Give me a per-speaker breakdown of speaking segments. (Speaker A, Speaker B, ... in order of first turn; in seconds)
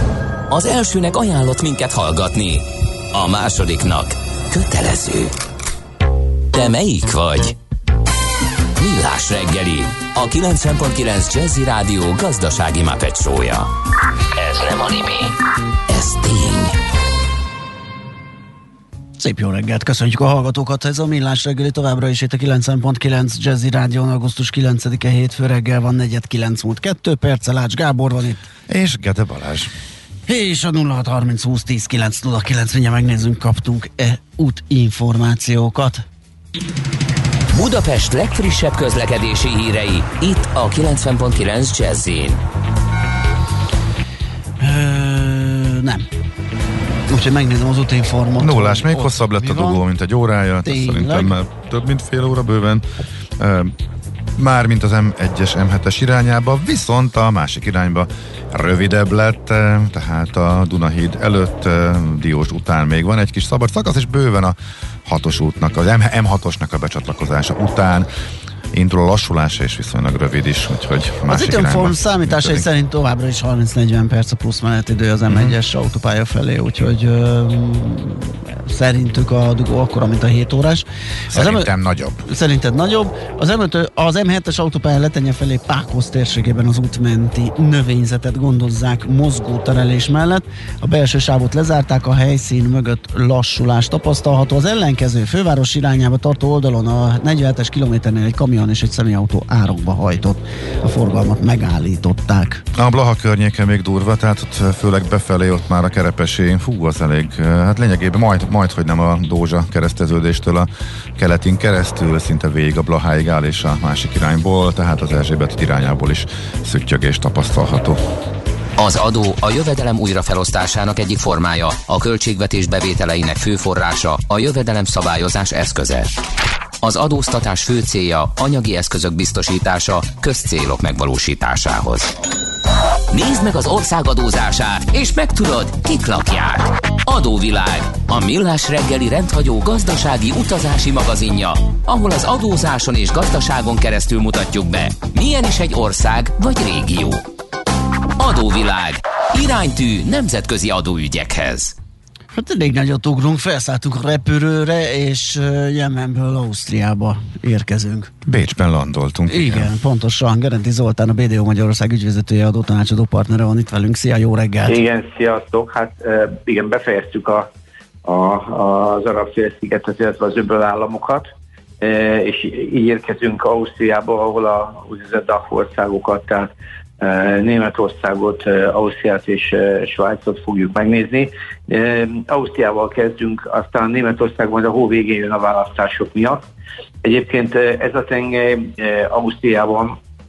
Speaker A: 0.5-5.3, 6.5-7.6, 8.8-13.7, 14.4-15.3, 15.9-16.8, 37.5-42.4, 118.8-126.2, 126.8-132.1, 133.1-147.2, 148.2-151.8
Speaker B: 19.2-28.4, 30.3-36.0, 44.6-46.1, 47.1-49.8, 50.6-51.4, 71.3-81.7, 82.3-102.6, 152.3-158.1, 159.3-164.8
Speaker C: 28.7-29.7, 48.4-52.8, 53.4-53.8, 54.4-68.1, 68.7-72.7, 75.3-75.6, 81.3-82.2, 102.7-118.0, 158.3-159.7
Speaker D: 164.7-167.5, 168.0-171.3, 171.8-186.4, 187.0-190.0